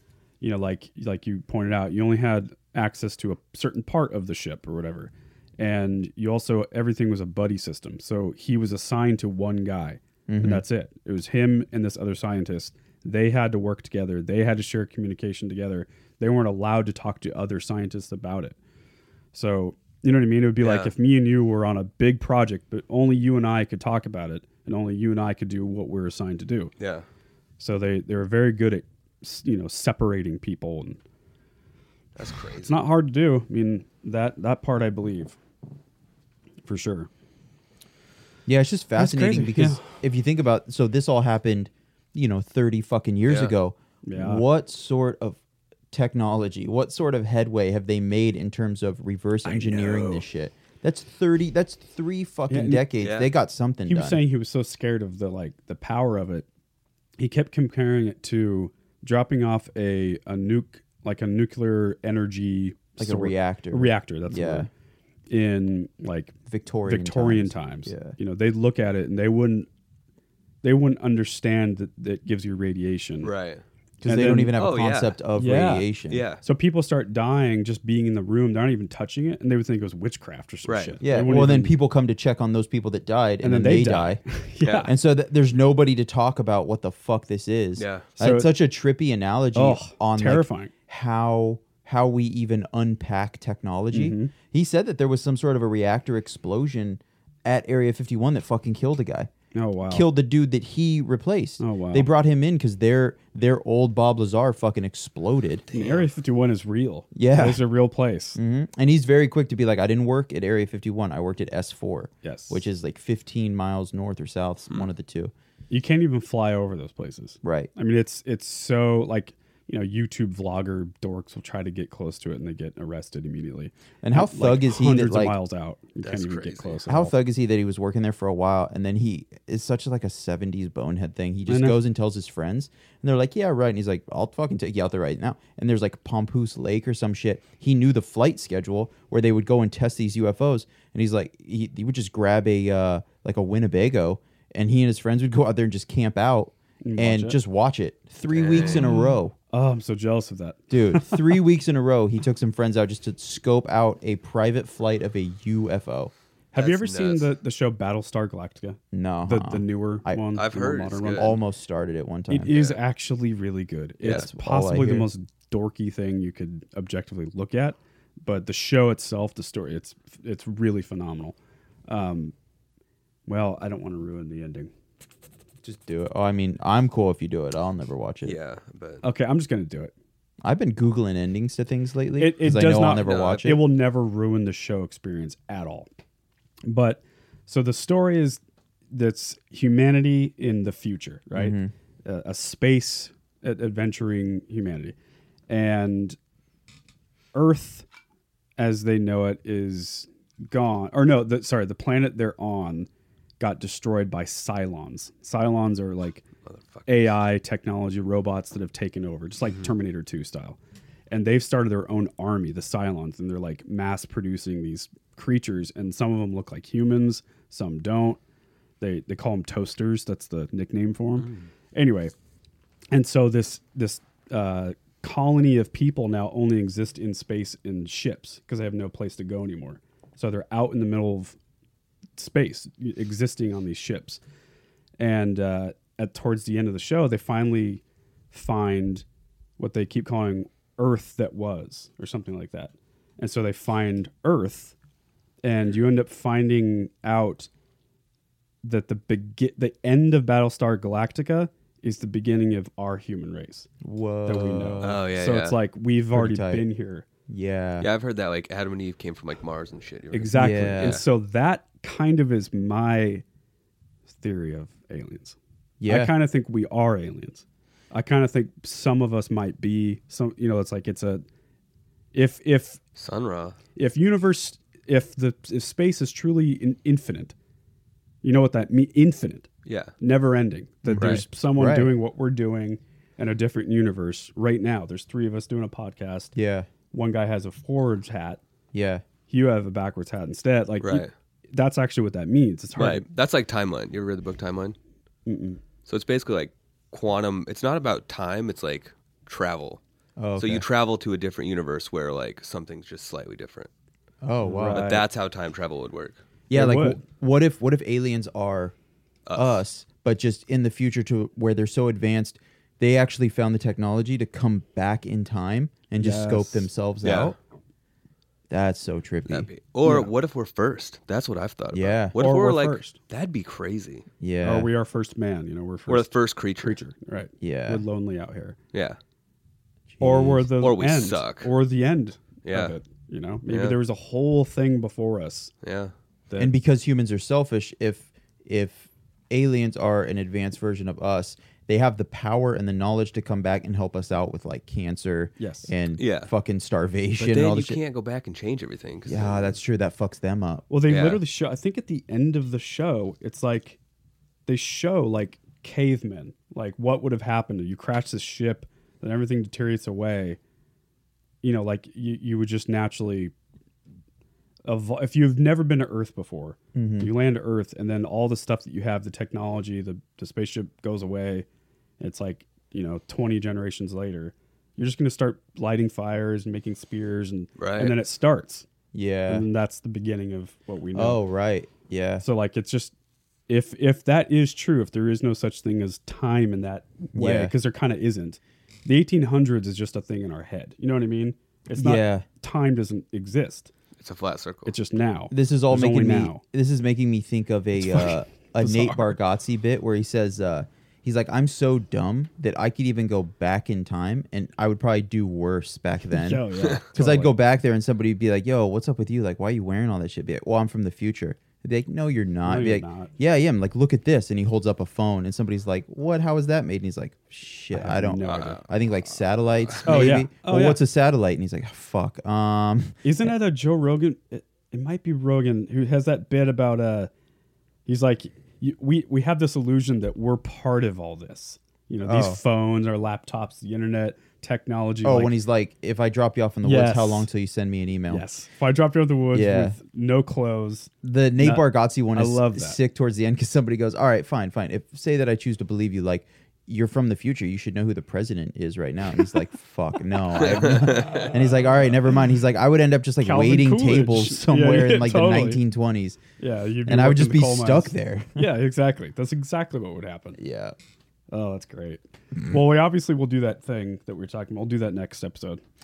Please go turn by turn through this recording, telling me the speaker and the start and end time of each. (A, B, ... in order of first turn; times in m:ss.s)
0:00.4-0:18.6 A
0:10.3-0:10.6 B
0:19.3-0:26.7 A
0:20.6-0:20.9 C
0:26.8-0:27.1 C
0:27.6-0:31.0 A
0:32.2-0:32.7 C
0:32.6-0:35.4 A
0:36.7-0:37.1 A
0:38.5-0:45.4 B
0:39.0-0:39.9 A
0:43.3-0:43.5 C
0:44.1-0:44.4 A
0:45.9-0:54.2 B
0:49.4-0:50.2 A
0:52.5-0:52.9 A
0:53.0-0:53.3 C
0:53.9-0:56.5 A
0:57.2-1:04.7 A
1:03.0-1:04.7 B
1:05.3-1:06.4 A
1:06.5-1:08.2 B
1:06.9-1:09.7 A
1:10.6-1:13.3 A
1:13.2-1:13.6 C
1:14.0-1:16.2 B
1:14.0-1:14.5 A
1:14.6-1:15.2 C
1:15.4-1:15.9 A
1:16.1-1:16.4 C
1:16.4-1:21.7 A
1:20.7-1:21.0 C
1:21.0-1:24.2 B
1:23.4-1:24.9 A
1:24.8-1:39.3 B
1:27.8-1:28.1 C
1:28.2-1:28.5 A
1:29.6-1:30.7 A
1:33.9-1:34.3 A
1:39.6-1:40.1 A
1:39.9-1:45.7 B
1:41.6-1:42.1 A
1:45.7-1:46.1 C
1:45.7-1:48.4 A
1:47.2-1:47.6 B
1:48.4-1:55.3 B
1:52.2-1:52.6 A
1:55.7-2:07.1 A
1:57.4-1:57.7 B
2:04.0-2:05.4 B
2:06.0-2:06.8 C
2:06.9-2:29.3 B
2:11.5-2:11.8 A
2:26.8-2:27.4 A
2:28.3-2:28.9 C
2:28.7-2:31.4 A
2:30.7-2:36.1 B
2:36.5-2:41.4 A
2:36.6-2:37.3 C
2:38.9-2:40.2 B
2:40.4-2:41.3 C
2:41.1-2:42.6 B
2:42.3-2:51.4 A
2:42.5-2:42.8 C
2:44.1-2:45.1 B
2:51.9-2:52.3 A
2:53.3-2:54.7 A
2:55.6-2:58.4 B
2:58.2-2:59.0 C
2:59.0-2:59.9 A
3:00.4-3:03.6 B
3:02.2-3:05.9 A
3:03.0-3:03.5 C
3:06.6-3:08.4 A
3:08.9-3:15.0 A
3:11.4-3:11.7 B
3:15.5-3:16.2 A
3:17.3-3:17.9 A
3:18.6-3:22.9 A
3:23.4-3:26.2 A
3:26.4-3:27.2 C
3:26.9-3:30.6 A
3:31.1-3:38.2 A
3:38.8-3:42.1 A
3:41.2-3:41.5 C
3:42.9-3:51.4 A
3:52.2-3:54.2 A
3:55.0-3:59.0 A
3:59.6-4:04.8 A
4:05.4-4:07.5 A
4:08.6-4:13.7 A
4:13.8-4:15.0 B
4:14.2-4:17.0 A
4:14.8-4:15.6 C
4:16.1-4:16.6 B
4:17.3-4:17.9 B
4:17.8-4:21.0 C
4:20.1-4:23.2 A
4:20.4-4:21.0 B
4:24.1-4:31.2 A
4:25.8-4:26.1 B
4:32.1-4:32.8 A
4:33.0-4:33.6 C
4:33.8-4:37.3 A
4:38.2-4:39.5 A
4:39.7-4:39.9 C
4:40.0-4:46.3 A
4:40.9-4:41.9 B
4:46.3-4:46.7 B
4:46.9-4:48.4 A
4:48.7-4:49.0 B
4:49.3-4:53.0 A
4:50.8-4:51.1 C
4:52.8-4:54.8 C
4:55.3-4:55.6 A
4:55.9-4:59.8 C
5:00.2-5:00.7 B
5:00.4-5:03.7 C
5:04.2-5:04.9 B
5:04.4-5:05.0 A
5:04.7-5:06.2 C
5:06.5-5:08.8 B
5:06.5-5:07.0 A
5:09.3-5:09.6 C
5:09.4-5:17.4 B
5:16.0-5:16.7 A
5:17.0-5:17.4 C
5:18.5-5:20.0 B
5:19.3-5:24.1 C
5:21.7-5:22.1 B
5:22.2-5:23.0 A
5:24.2-5:24.7 B
5:24.4-5:28.6 A
5:25.9-5:26.8 C
5:27.4-5:27.8 B
5:28.7-5:29.0 C
5:29.9-5:30.5 B
5:30.0-5:35.5 A
5:30.6-5:31.5 C
5:32.5-5:32.8 C
5:33.5-5:33.8 C
5:35.6-5:35.9 C
5:36.4-5:47.8 B
5:45.4-5:45.7 A
5:46.0-5:46.3 C
5:47.2-5:49.6 C
5:49.1-5:50.7 B
5:50.7-5:53.8 A
5:50.9-5:51.2 C
5:54.5-6:00.4 A
6:01.4-6:03.3 A
6:04.6-6:11.5 A
6:06.7-6:07.1 B
6:12.0-6:18.6 A
6:17.6-6:18.0 C
6:18.9-6:19.5 B
6:19.3-6:21.2 A
6:21.0-6:22.2 B
6:22.2-6:22.9 A
6:23.5-6:33.7 A
6:27.2-6:27.5 B
6:31.8-6:32.3 B
6:34.0-6:34.7 C
6:34.7-6:36.4 A
6:35.3-7:03.3 B
6:37.8-6:39.2 A
6:46.1-6:47.3 A
6:52.4-6:53.1 A
6:57.7-6:58.6 A
6:58.2-6:58.6 C
6:59.9-7:00.8 A
7:03.0-7:07.1 A
7:07.9-7:15.4 A
7:12.0-7:12.4 B
7:15.0-7:18.2 B
7:16.6-7:17.3 A
7:18.1-7:22.8 A
7:19.3-7:19.8 B
7:21.0-7:36.2 B
7:30.4-7:31.3 C
7:31.1-7:31.9 A
7:33.2-7:35.6 A
7:36.4-7:40.4 A
7:36.9-7:38.5 B
7:40.4-7:40.8 B
7:41.3-7:45.6 A